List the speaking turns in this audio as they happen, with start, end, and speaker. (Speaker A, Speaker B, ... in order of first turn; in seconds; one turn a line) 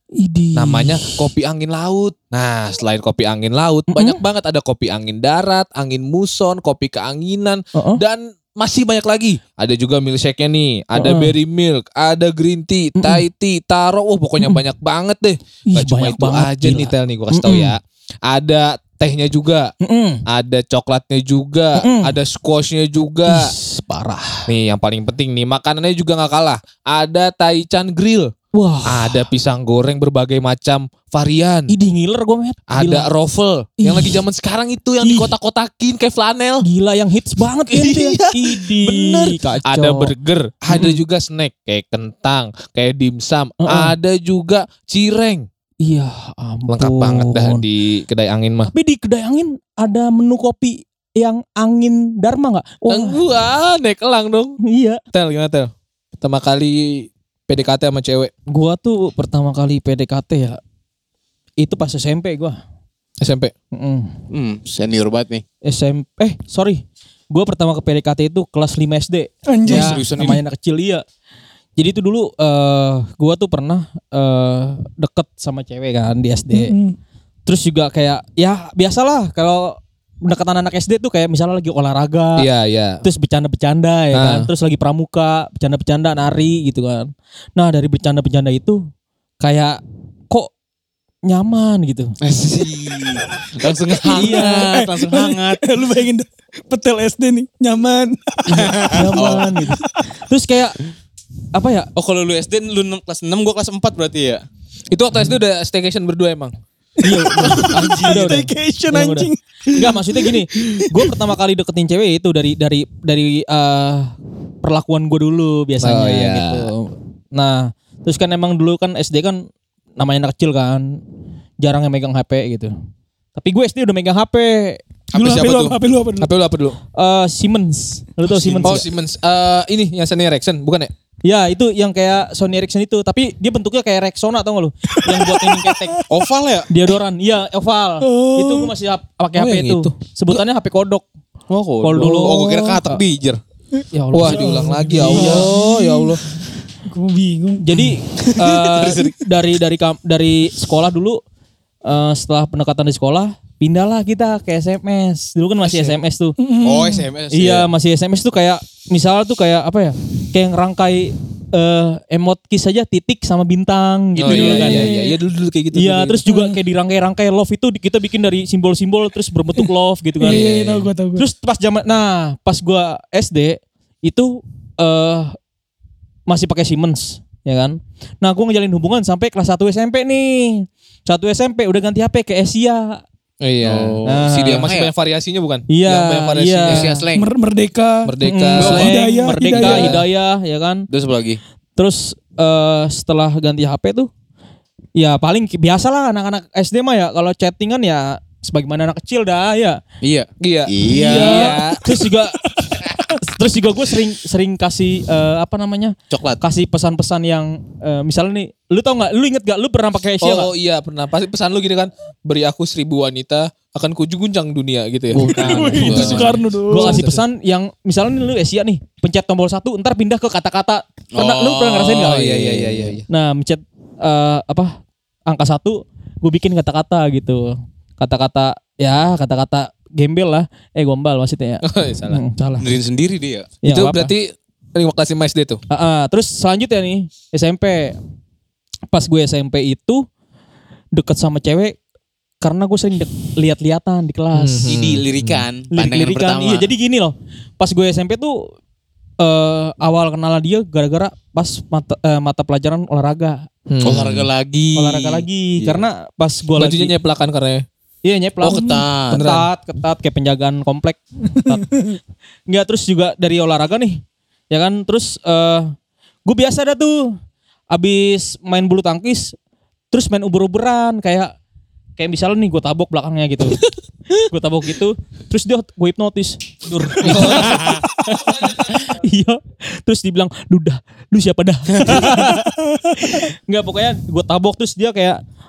Speaker A: 0.1-1.3
Speaker B: 0.5-19.7
Speaker A: 3.9-4.2
Speaker A: 7.7-8.0
Speaker A: 10.9-11.3
Speaker A: 12.9-13.2
Speaker A: 15.7-17.8
Speaker A: 19.8-20.2
Speaker B: 20.3-23.5
Speaker A: 21.7-22.2
Speaker A: 23.2-24.5
Speaker B: 24.5-28.3
Speaker A: 28.5-29.3
Speaker B: 28.8-31.7
Speaker A: 31.7-33.1
Speaker B: 32.7-36.6
Speaker A: 33.8-34.2
Speaker A: 35.0-35.3
Speaker A: 36.6-40.1
Speaker B: 37.7-45.5
Speaker A: 40.7-41.0
Speaker A: 43.6-43.9
Speaker A: 45.8-47.6
Speaker B: 46.7-48.7
Speaker A: 48.6-53.2
Speaker B: 52.9-54.6
Speaker A: 54.6-55.0
Speaker B: 55.1-58.3
Speaker A: 58.5-60.6
Speaker A: 61.6-62.6
Speaker B: 63.2-63.5
Speaker A: 63.7-64.1
Speaker C: 64.3-65.4
Speaker A: 65.6-71.0
Speaker D: 69.5-69.9
Speaker C: 69.7-70.4
Speaker A: 71.8-76.7
Speaker D: 76.5-77.0
Speaker A: 77.5-82.5
Speaker B: 82.4-83.0
Speaker A: 83.0-88.8
Speaker B: 84.1-84.5
Speaker A: 89.4-90.5
Speaker A: 91.3-92.2
Speaker C: 92.2-95.8
Speaker A: 94.0-94.7
Speaker D: 94.1-99.0
Speaker C: 98.5-99.5
Speaker A: 98.9-100.8
Speaker D: 99.6-100.0
Speaker A: 101.5-101.9
Speaker C: 101.9-104.4
Speaker B: 104.9-106.5
Speaker A: 107.0-119.4
Speaker D: 107.0-110.0
Speaker B: 115.8-116.7
Speaker A: 120.0-121.0
Speaker A: 121.6-122.7
Speaker A: 123.3-124.8
Speaker C: 125.1-125.8
Speaker D: 125.1-126.3
Speaker B: 126.2-126.8
Speaker A: 126.9-128.8
Speaker C: 128.3-128.8
Speaker B: 128.6-130.9
Speaker A: 131.2-136.1
Speaker C: 136.1-136.7
Speaker A: 136.7-141.1
Speaker D: 138.0-138.7
Speaker B: 139.3-139.9
Speaker C: 141.5-143.4
Speaker A: 141.8-143.0
Speaker B: 141.9-142.5
Speaker A: 143.9-145.5
Speaker B: 144.1-146.2
Speaker D: 144.3-145.9
Speaker D: 146.8-148.2
Speaker A: 147.6-151.2
Speaker C: 148.2-149.1
Speaker A: 151.8-156.3
Speaker B: 155.6-155.9
Speaker D: 156.4-157.1
Speaker C: 156.6-157.7
Speaker A: 157.3-165.0
Speaker B: 164.2-166.3
Speaker C: 164.2-164.8
Speaker A: 165.7-170.4
Speaker D: 170.2-171.2
Speaker B: 170.2-170.9
Speaker A: 171.2-175.3
Speaker A: 176.3-183.0
Speaker B: 183.4-186.9
Speaker C: 183.6-184.9
Speaker A: 184.0-184.6
Speaker A: 185.7-187.0
Speaker C: 186.7-187.3
Speaker D: 187.1-188.1
Speaker B: 188.0-190.1
Speaker A: 188.2-190.9
Speaker D: 188.7-189.9
Speaker C: 190.9-191.4
Speaker A: 191.8-194.1
Speaker A: 194.9-199.8
Speaker C: 200.0-201.6
Speaker B: 200.4-201.9
Speaker A: 200.9-210.5
Speaker C: 206.1-206.4
Speaker B: 210.2-217.2
Speaker C: 215.1-216.4
Speaker D: 215.5-217.0
Speaker A: 215.8-222.2
Speaker C: 221.1-223.0
Speaker B: 221.8-223.0
Speaker A: 223.1-232.7
Speaker B: 231.6-232.2
Speaker C: 232.6-233.5
Speaker A: 233.6-234.1
Speaker B: 233.7-235.6
Speaker A: 235.7-238.0
Speaker A: 238.9-240.1
Speaker A: 240.9-241.8
Speaker A: 242.4-244.7
Speaker B: 244.3-245.4
Speaker C: 244.7-246.7
Speaker A: 245.7-248.5
Speaker A: 249.2-253.5
Speaker B: 253.7-254.3
Speaker C: 253.8-255.8
Speaker A: 254.7-256.9
Speaker B: 256.6-257.6
Speaker A: 258.0-261.9
Speaker C: 258.4-259.3
Speaker B: 259.1-259.5
Speaker A: 262.5-265.7
Speaker A: 266.2-267.1
Speaker A: 267.7-269.3
Speaker A: 269.9-271.3
Speaker A: 272.0-273.6
Speaker A: 274.1-285.2
Speaker B: 277.0-277.8
Speaker C: 277.3-277.8